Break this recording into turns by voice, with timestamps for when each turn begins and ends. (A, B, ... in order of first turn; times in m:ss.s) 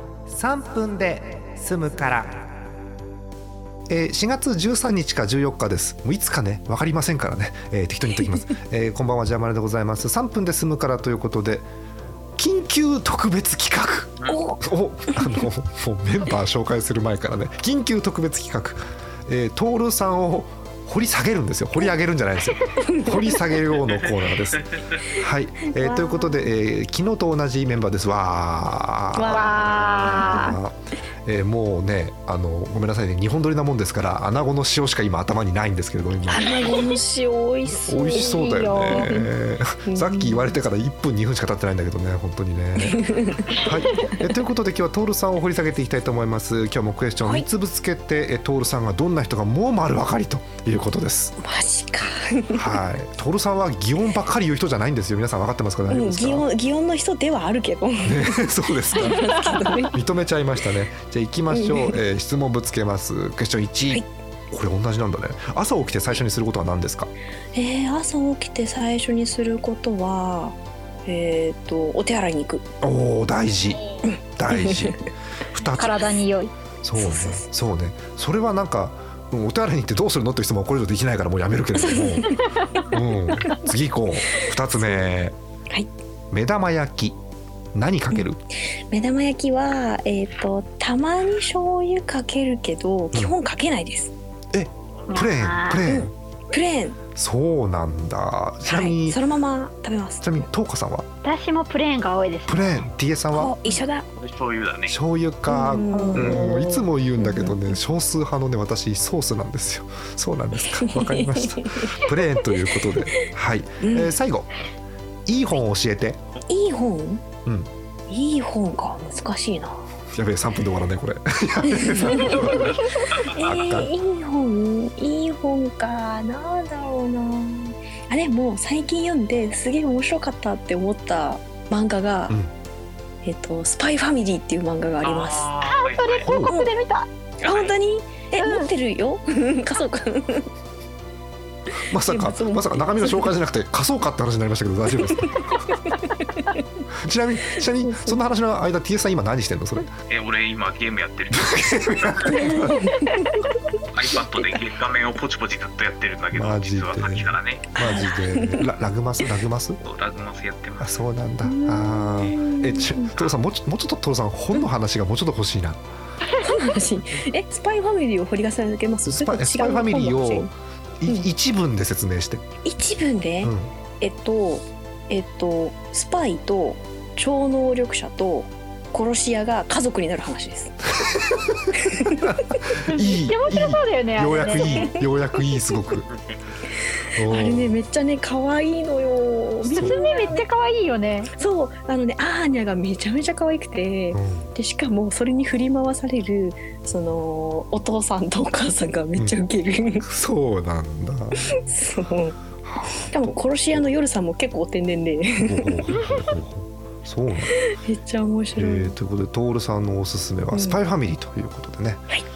0:00.3-0:02.4 A
0:03.9-0:11.7 B
0:12.4-0:36.9 B
0:14.3-0:14.6 C
0:22.9-0:23.1 C
0:23.8-0:24.8 D
0:25.7-0:26.5 C
0:29.2-0:30.5 C
0:29.2-0:30.6 E
0:36.3-0:39.3 C
0:37.9-0:43.0 B
0:38.3-0:39.1 E
0:39.9-0:40.5 C
0:42.8-0:44.1 C
0:43.5-0:51.4 B
0:51.4-0:52.7 C
0:52.5-0:56.4 B
0:55.9-0:59.9 C
0:58.0-1:07.1 B
1:01.5-1:02.0 C
1:07.5-1:12.6 C
1:12.8-1:13.8 B
1:14.0-1:14.9 C
1:14.4-1:16.0 B
1:15.7-1:16.5 E
1:16.8-1:22.3 B
1:17.0-1:17.5 C
1:21.8-1:22.8 C
1:22.9-1:25.4 B
1:24.8-1:25.0 C
1:26.3-1:27.2 B
1:27.7-1:28.4 B
1:28.9-1:34.1 C
1:34.5-1:36.1 B
1:35.1-1:35.8 E
1:35.8-1:37.0 C
1:37.2-1:39.2 B
1:38.6-1:40.4 C
1:40.2-1:41.1 B
1:41.2-1:42.6 E
1:42.5-1:43.6 B
1:43.3-1:44.1 C
1:44.1-1:45.0 D
1:44.9-1:54.5 B
1:45.5-1:46.6 C
1:45.9-1:46.8 E
1:47.2-1:47.7 C
1:50.8-1:51.9 C
1:53.8-1:54.1 C
1:55.2-1:56.2 B
1:56.5-1:57.2 C
1:58.1-1:59.8 C
2:00.1-2:02.9 B
2:01.7-2:12.4 C
2:02.2-2:03.5 D
2:03.4-2:03.9 B
2:13.2-2:15.5 C
2:15.0-2:16.3 D
2:15.6-2:17.1 E
2:16.2-2:16.6 B
2:16.4-2:16.7 C
2:17.4-2:20.5 C
2:17.5-2:17.7 D
2:18.4-2:18.7 E
2:21.9-2:25.7 B
2:21.9-2:23.4 C
2:25.2-2:26.6 C
2:27.0-2:29.9 B
2:27.8-2:28.2 C
2:30.1-2:32.5 D
2:31.3-2:32.8 B
2:32.3-2:33.4 C
2:33.9-2:37.7 D
2:36.3-2:39.8 B
2:37.7-2:38.7 C
2:39.8-2:41.0 D
2:40.8-2:45.8 B
2:41.4-2:43.1 C
2:46.4-2:50.5 C
2:49.0-2:52.4 B
2:52.6-3:00.9 C
2:53.4-2:53.7 B
3:01.8-3:02.2 C
3:02.1-3:06.0 B
3:02.9-3:04.8 E
3:04.3-3:05.0 C
3:05.9-3:06.2 D
3:07.2-3:07.8 B
3:07.2-3:10.4 C
3:09.7-3:10.0 B
3:09.8-3:11.3 E
3:11.3-3:20.1 C
3:14.1-3:14.5 B
3:20.0-3:21.6 B
3:21.5-3:22.4 C
3:22.6-3:23.8 B
3:22.9-3:25.9 C
3:25.4-3:27.6 B
3:27.5-3:28.9 C
3:28.6-3:32.1 B
3:30.5-3:30.8 C